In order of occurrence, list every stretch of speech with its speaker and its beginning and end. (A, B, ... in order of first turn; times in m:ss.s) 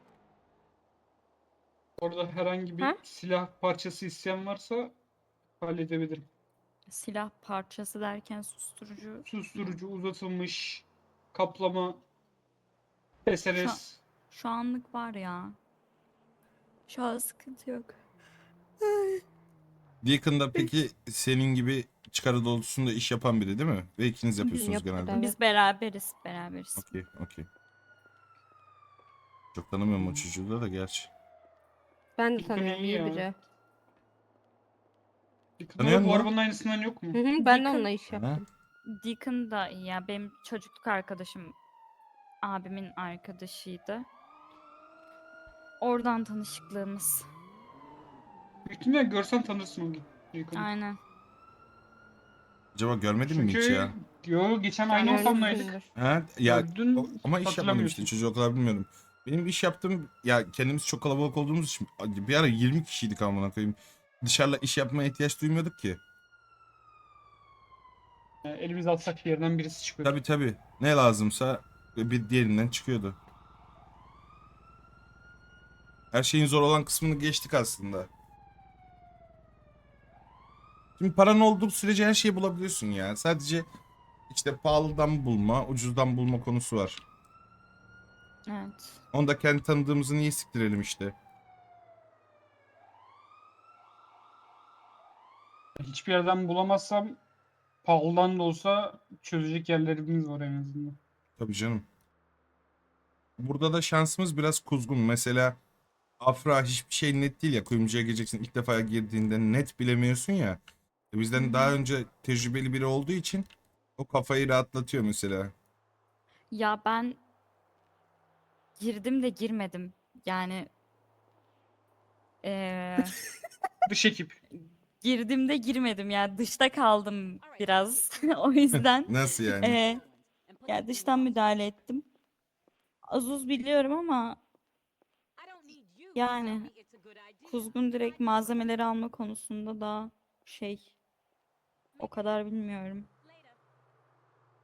0:02.0-0:04.9 A
0:05.6-0:06.3 A
0:06.9-0:09.8 B
0:09.2-0:12.0 A
0:13.2-0:14.0 A
0:14.3-0:15.6 B
0:16.9-0:18.0 B
0:18.8-0:19.2 B
0:20.0-0:25.3 C
0:24.4-0:26.9 B
0:24.5-0:25.4 D
0:26.8-0:27.5 C
0:29.5-0:31.1 C
0:32.2-0:33.3 D
0:32.4-0:33.3 A
0:35.6-0:37.2 A
0:35.8-0:36.3 C
0:37.1-0:38.4 D
0:37.4-0:37.9 B
0:38.1-0:38.4 C
0:38.8-0:41.5 B
0:42.4-0:44.1 B
0:45.8-0:47.3 B
0:48.6-0:50.7 A
0:50.5-0:51.0 B
0:52.7-0:53.9 C
0:53.3-0:55.8 A
0:54.9-0:55.9 D
0:55.0-0:55.4 B
0:55.9-1:06.0 C
0:56.4-0:58.1 A
1:08.4-1:10.2 A
1:10.0-1:13.2 C
1:16.1-1:18.1 C
1:21.0-1:23.6 C
1:24.3-1:27.0 C
1:28.5-1:29.0 B
1:29.1-1:31.1 C
1:35.8-1:37.2 A
1:37.8-1:41.0 A
1:41.4-1:41.8 C
1:43.4-1:45.6 C
1:46.2-1:50.6 C
1:51.1-1:53.5 C
1:51.3-1:51.8 B
1:54.0-1:55.5 C
1:56.5-1:57.2 B
1:58.8-2:00.7 B
2:02.4-2:03.2 B
2:03.8-2:04.4 A
2:04.6-2:10.0 B
2:09.1-2:09.8 C
2:10.6-2:12.0 B
2:13.1-2:14.4 B
2:16.1-2:16.8 B
2:17.4-2:20.9 B
2:22.0-2:23.1 B